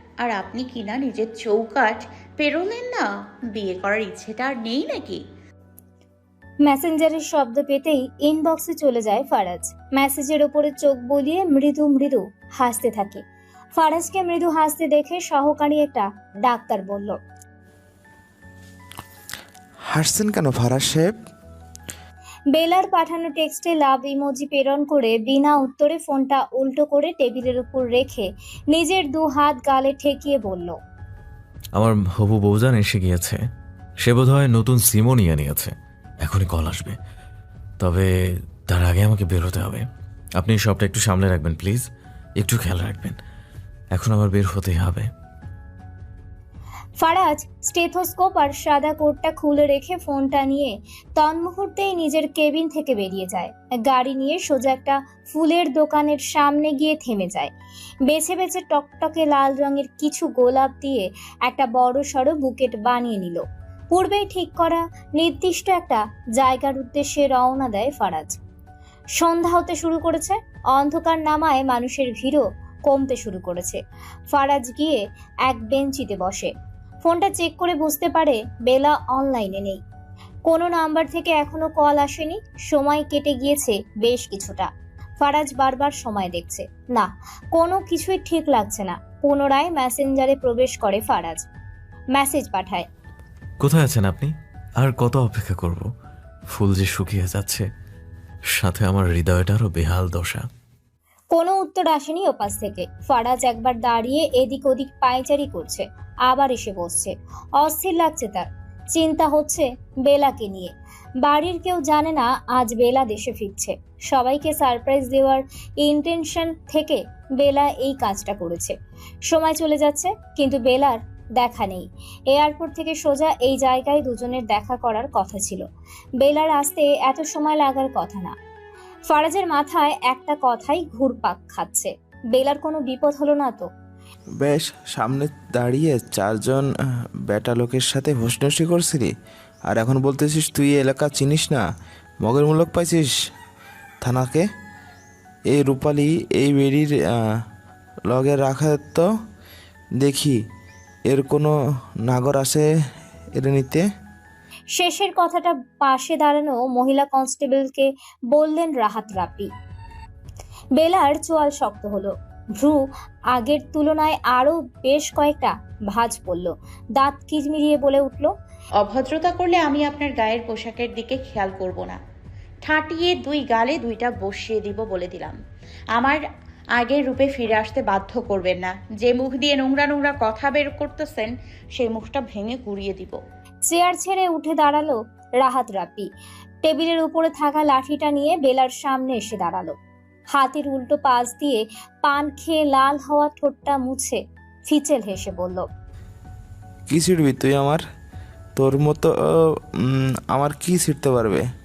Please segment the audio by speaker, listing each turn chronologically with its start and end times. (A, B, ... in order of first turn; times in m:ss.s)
0:00.2-0:05.2 A
0:06.6-0:13.2 B
0:13.8-0:17.2 B
0:19.9-0:21.1 C
0:22.5-0:30.8 B
0:31.8-0:33.4 D
0:34.0-0:37.0 D
0:37.8-0:38.1 D
0:38.7-0:39.8 D
0:40.4-0:41.8 D
0:42.4-0:43.2 D
0:44.0-0:45.1 D
0:47.0-0:57.5 B
0:58.0-1:08.4 B
1:09.2-1:13.8 B
1:14.3-1:16.5 B
1:17.0-1:19.8 B
1:20.5-1:31.5 B
1:32.1-1:32.9 B
1:33.6-1:35.9 D
1:36.5-1:37.6 D
1:38.6-1:40.4 D
1:41.3-1:58.8 B
1:59.3-2:05.6 B
2:06.2-2:08.3 B
2:09.1-2:13.7 B
2:14.4-2:16.7 C
2:17.3-2:19.1 C
2:19.7-2:21.6 C
2:22.2-2:23.1 C
2:24.0-2:24.5 C
2:25.5-2:27.4 C
2:28.1-2:29.1 C
2:30.0-2:30.4 C
2:31.1-2:31.5 C
2:32.0-2:32.7 C
2:33.4-2:33.8 C
2:34.8-2:39.5 B
2:40.8-2:48.3 B
2:48.8-2:52.0 A
2:52.7-2:55.4 A
2:56.0-2:56.2 A
2:56.8-3:03.2 A
3:03.7-3:06.1 B
3:06.6-3:09.8 B
3:10.3-3:15.7 B
3:16.9-3:17.8 C
3:18.6-3:19.1 C
3:19.9-3:21.5 C